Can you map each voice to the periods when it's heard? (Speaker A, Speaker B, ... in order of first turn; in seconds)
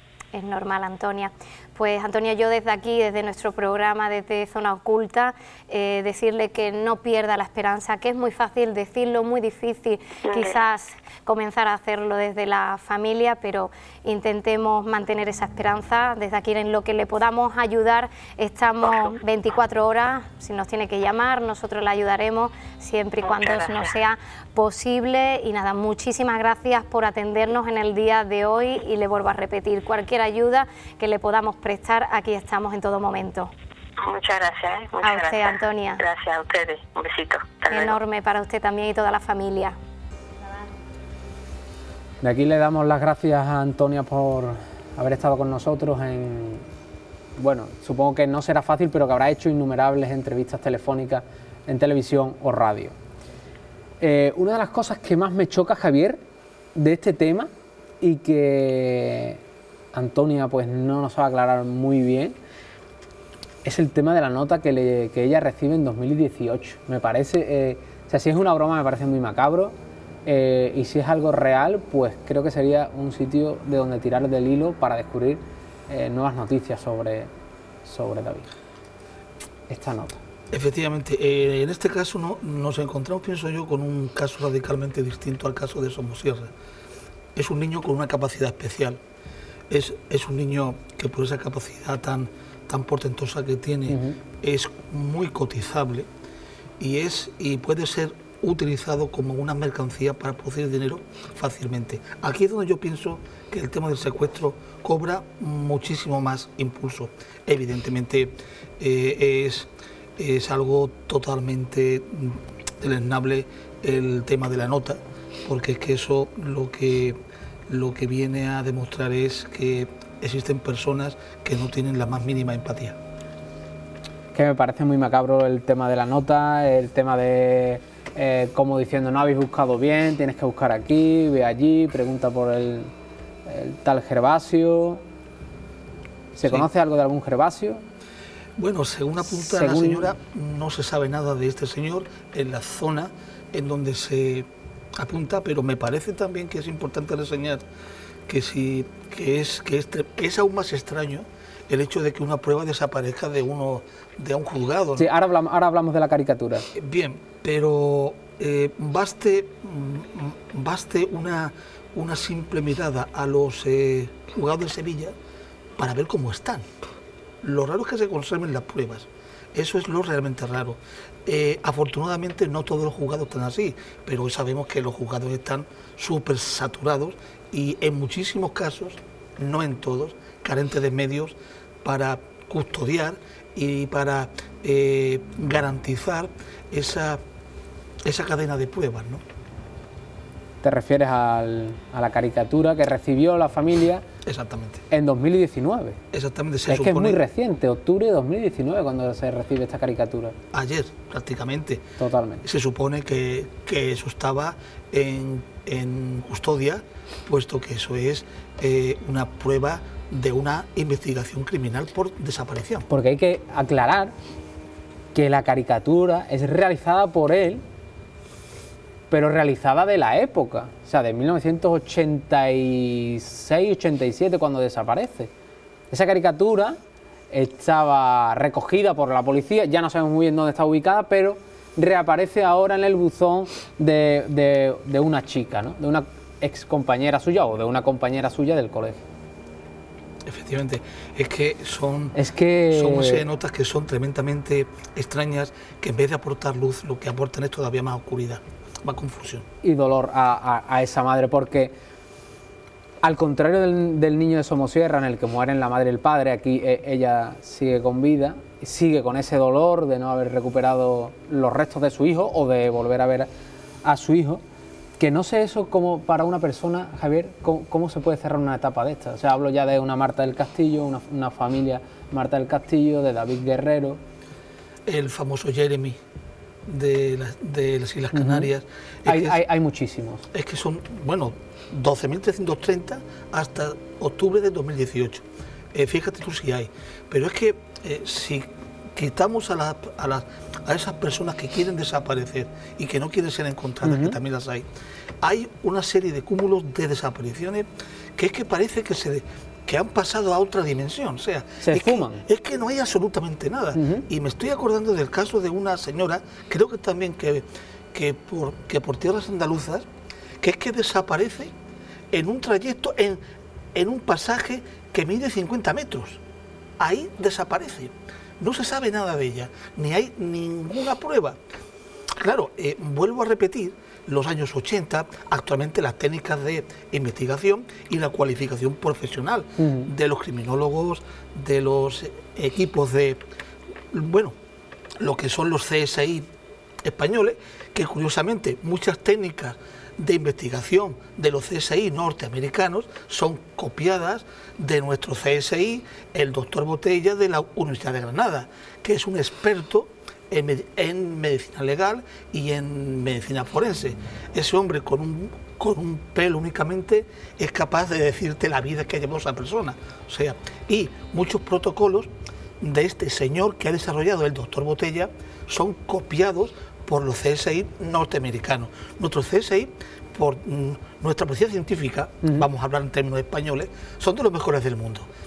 Speaker A: 0.3-33.5, 35.0-36.0, 37.7-39.8
Speaker B: 10.2-10.6, 18.8-19.1, 23.2-23.9, 34.0-38.0
Speaker C: 42.2-46.6, 47.4-53.0, 54.0-56.2, 56.7-59.4, 59.9-62.4, 63.6-77.3, 77.8-78.5, 79.7-80.2, 93.9-94.2, 124.3-132.9, 133.4-135.0, 136.3-137.8, 139.2-140.1, 155.0-156.7, 190.6-194.1, 194.9-196.0, 196.7-200.3, 202.0-202.4, 212.9-214.1, 215.1-217.6, 219.1-225.3, 225.9-226.8, 227.3-239.0, 242.1-243.2, 249.6-251.7, 253.0-263.3, 263.8-264.4, 265.0-274.0, 278.1-278.5, 279.1-280.3, 293.8-294.2, 301.6-302.2, 303.7-304.1, 329.6-329.9
Speaker D: 80.5-86.5, 87.3-89.0, 89.7-96.1, 96.8-123.0, 138.6-147.6, 148.3-155.1, 156.7-165.1, 165.8-166.6, 167.4-187.2, 188.0-189.2, 194.2-194.8, 196.1-197.2, 200.5-201.9, 202.4-212.8, 240.2-242.2, 242.7-249.4, 274.9-276.0, 276.7-279.4, 280.3-294.6, 295.2-309.9, 310.4-311.5, 312.1-313.2, 313.7-316.2, 316.8-321.4, 322.2-333.2, 333.9-334.3, 335.0-336.3, 336.8-362.1, 362.6-375.1